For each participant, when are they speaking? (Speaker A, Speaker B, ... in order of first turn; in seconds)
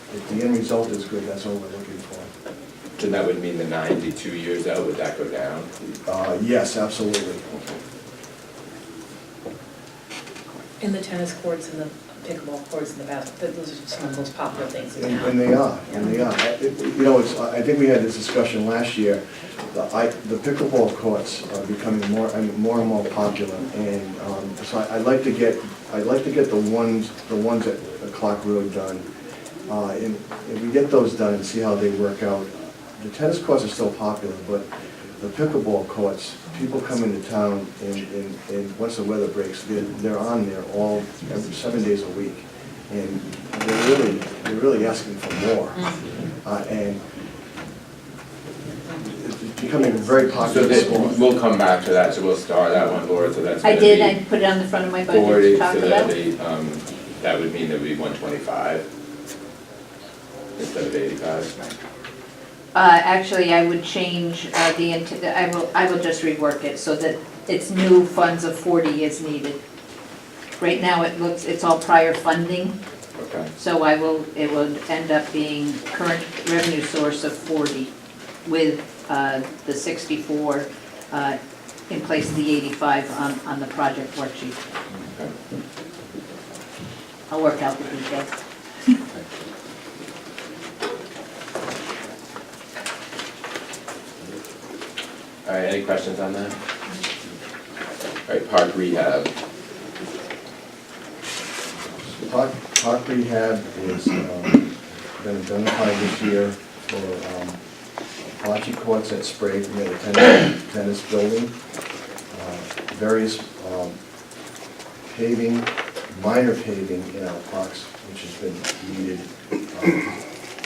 Speaker A: 0.1-2.3, 6.1-7.4, 14.9-29.0, 29.7-34.6, 35.2-45.9, 46.4-47.0, 49.1-51.3, 102.2-107.6, 108.2-111.5, 112.3-114.0, 115.1-120.2
Speaker B: 3.0-5.7, 7.5-7.8, 50.5-54.2, 55.1-58.8, 60.6-61.7, 73.2-73.5, 84.9-85.3, 95.5-96.6, 98.3-99.3
Speaker C: 10.8-15.5
Speaker D: 53.6-56.1, 62.8-69.6, 70.5-72.8, 73.6-77.9, 78.5-81.4, 81.9-84.6, 87.3-88.3